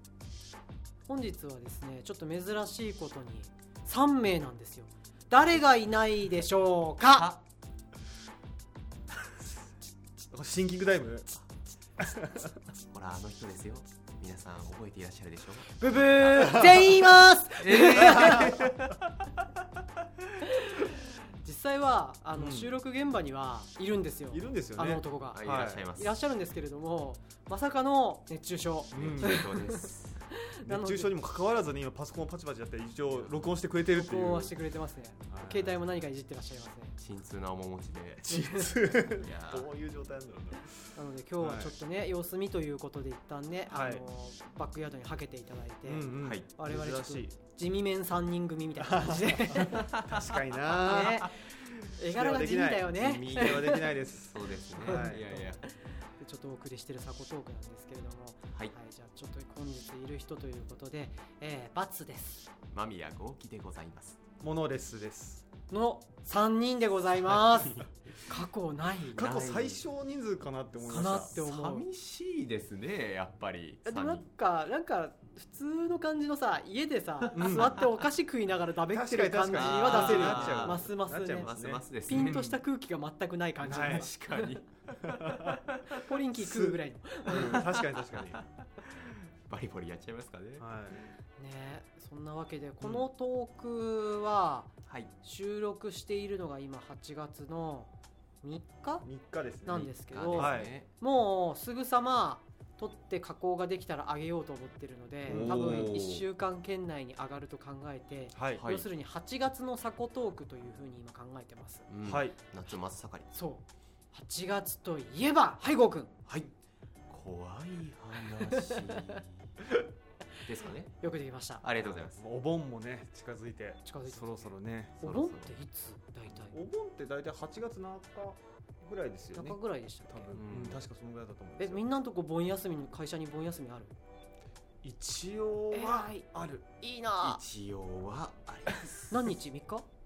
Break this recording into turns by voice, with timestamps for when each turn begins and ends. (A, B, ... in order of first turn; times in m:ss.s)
0:01.1-0:07.3 A
0:07.0-0:07.4 B
0:10.3-0:11.4 C
0:12.0-0:12.6 C
0:12.9-0:16.9 B
0:15.7-0:18.6 A
0:17.6-0:19.0 B
0:20.4-0:29.8 A
0:22.3-0:22.7 C
0:24.3-0:25.8 C
0:25.3-0:26.2 B
0:28.9-0:30.2 B
0:28.9-0:29.4 C
0:30.6-0:31.1 A
0:30.6-0:34.5 C
0:33.1-0:33.5 B
0:33.8-0:37.0 A
0:35.3-0:35.8 C
0:37.0-0:39.7 B
0:38.3-0:41.7 C
0:38.3-0:38.7 A
0:40.9-0:49.9 A
0:43.7-0:44.0 C
0:45.8-0:47.3 C
0:46.2-0:46.5 B
0:48.8-0:51.4 C
0:49.5-0:51.2 B
0:50.7-0:51.3 A
0:52.0-0:53.9 A
0:52.0-0:55.3 C
0:52.9-0:55.6 B
0:54.8-1:02.5 A
1:02.7-1:04.2 B
1:04.4-1:05.4 C
1:05.7-1:09.2 A
1:07.5-1:07.8 B
1:09.1-1:09.8 B
1:09.1-1:11.4 C
1:10.8-1:11.8 A
1:10.9-1:14.3 B
1:13.8-1:21.5 A
1:17.3-1:17.8 C
1:17.4-1:18.0 B
1:18.9-1:22.6 C
1:19.5-1:22.4 B
1:22.1-1:24.6 A
1:23.6-1:26.0 B
1:23.7-1:24.1 C
1:25.0-1:25.6 C
1:26.0-1:27.7 A
1:26.4-1:28.4 C
1:27.3-1:30.6 B
1:30.6-1:31.0 C
1:31.4-1:37.9 A
1:38.4-1:39.1 A
1:39.0-1:40.7 C
1:39.6-1:51.8 A
1:39.8-1:40.9 B
1:45.2-1:46.0 C
1:45.3-1:46.2 B
1:48.3-1:48.6 C
1:48.6-1:48.8 B
1:51.9-1:53.3 B
1:52.0-1:52.4 C
1:53.3-1:56.2 A
1:57.1-1:59.5 B
1:58.3-1:59.2 A
2:00.4-2:01.0 B
2:01.0-2:01.6 A
2:01.6-2:02.2 B
2:01.8-2:05.0 C
2:03.8-2:06.6 A
2:05.0-2:05.5 B
2:06.5-2:11.8 C
2:09.3-2:10.4 A
2:10.3-2:10.8 B
2:11.6-2:13.9 A
2:14.8-2:16.7 C
2:15.7-2:16.2 A
2:16.8-2:17.4 A
2:17.2-2:19.3 B
2:19.1-2:19.8 A